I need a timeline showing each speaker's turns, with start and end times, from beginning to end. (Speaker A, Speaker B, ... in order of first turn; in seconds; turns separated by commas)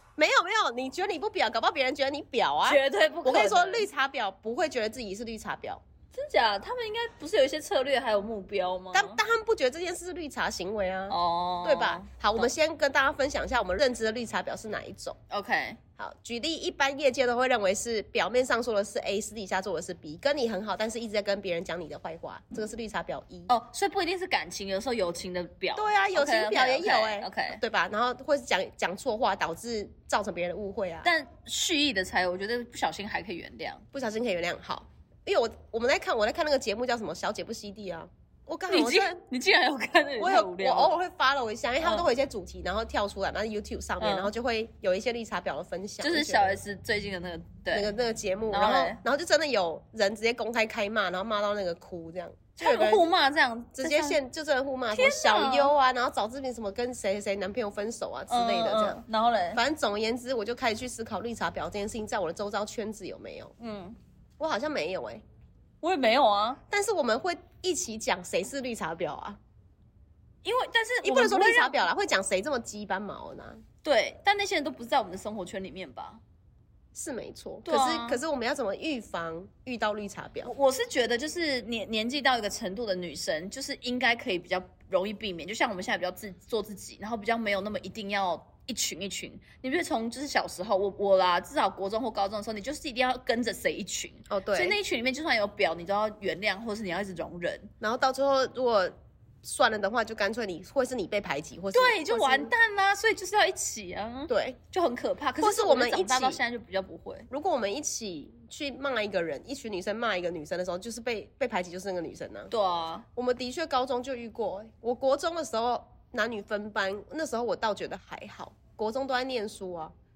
Speaker A: 0.2-5.8, Speaker B: 2.7-3.9, Speaker B: 6.1-9.2, Speaker A: 8.9-15.2, Speaker B: 11.1-12.5, Speaker B: 15.3-15.8, Speaker A: 16.0-23.5, Speaker B: 23.5-27.6, Speaker A: 25.8-31.1, Speaker B: 31.0-33.8, Speaker A: 33.9-39.2, Speaker B: 38.7-41.0, Speaker A: 40.2-46.6, Speaker B: 41.8-42.1, Speaker B: 44.0-44.3, Speaker B: 46.0-47.9, Speaker A: 47.7-53.1, Speaker B: 48.5-49.0, Speaker B: 52.5-54.2, Speaker A: 53.8-63.5, Speaker B: 54.9-55.7, Speaker B: 58.3-59.6, Speaker B: 63.6-64.0, Speaker A: 64.4-65.2, Speaker B: 65.8-66.6, Speaker A: 66.7-69.4, Speaker B: 70.4-71.8, Speaker A: 71.0-73.6, Speaker B: 73.8-76.2, Speaker A: 76.9-80.5, Speaker B: 77.6-78.2, Speaker B: 80.4-97.7, Speaker A: 94.3-94.8, Speaker A: 97.8-102.5, Speaker B: 101.7-107.3, Speaker A: 104.3-104.6, Speaker A: 105.4-106.4, Speaker A: 107.3-112.5, Speaker B: 112.5-113.0, Speaker A: 113.2-119.9